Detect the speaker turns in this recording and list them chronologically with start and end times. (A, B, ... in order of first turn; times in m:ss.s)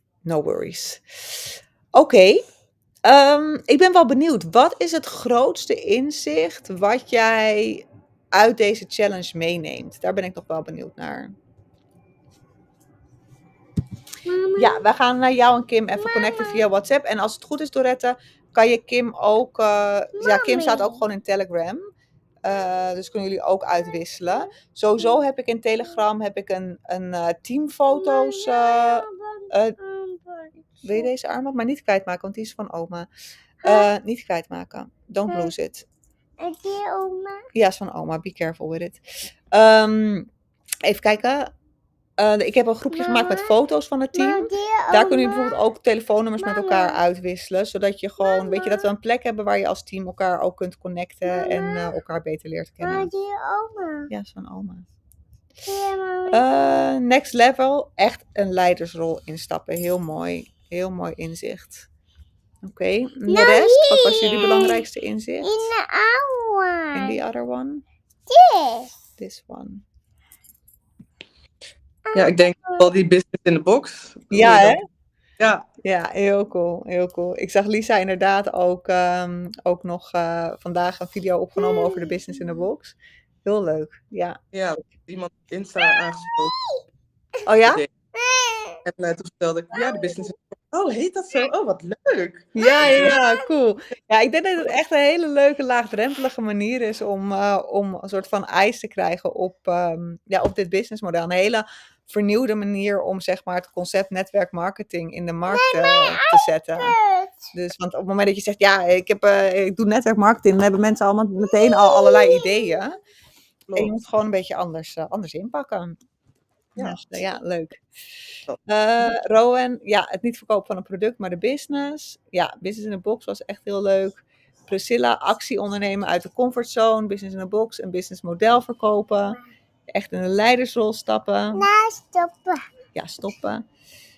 0:00.2-0:02.4 A
0:03.0-0:11.3 A
0:14.2-0:14.9 B
0:14.6-0:21.9 A
0:16.0-0:16.6 B
0:20.2-0:21.0 B
0:22.4-0:29.8 A
0:27.9-0:31.1 B
0:30.8-0:33.1 A
0:33.6-0:33.9 B
0:33.6-0:35.9 A
0:35.3-0:35.5 B
0:36.4-0:37.4 B
0:37.5-0:39.0 A
0:39.5-0:40.3 A
0:40.8-0:41.5 A
0:42.2-0:53.1 A
0:42.9-0:43.5 B
0:44.1-0:45.5 B
0:46.4-0:47.0 B
0:48.2-0:48.9 B
0:51.2-0:51.9 B
0:52.8-0:54.1 B
0:54.1-0:54.8 A
0:55.6-0:56.9 B
0:56.3-1:01.9 A
1:02.6-1:05.6 A
1:03.3-1:04.8 B
1:05.4-1:07.2 B
1:06.9-1:07.8 A
1:08.3-1:08.9 B
1:09.2-1:09.8 A
1:12.0-1:12.9 B
1:12.1-1:14.8 C
1:14.3-1:14.8 A
1:15.8-1:24.4 A
1:21.6-1:22.4 B
1:24.5-1:26.5 C
1:25.8-1:26.7 B
1:27.4-1:27.8 A
1:28.1-1:28.8 B
1:28.8-1:33.1 C
1:29.8-1:30.2 B
1:32.5-1:47.0 A
1:32.6-1:33.5 B
1:45.5-1:47.5 B
1:47.5-1:53.0 A
1:51.4-1:52.9 B
1:53.8-1:56.0 A
1:56.8-1:57.8 A
1:58.6-2:09.4 A
2:09.9-2:11.7 A
2:11.5-2:12.7 B
2:12.9-2:13.6 A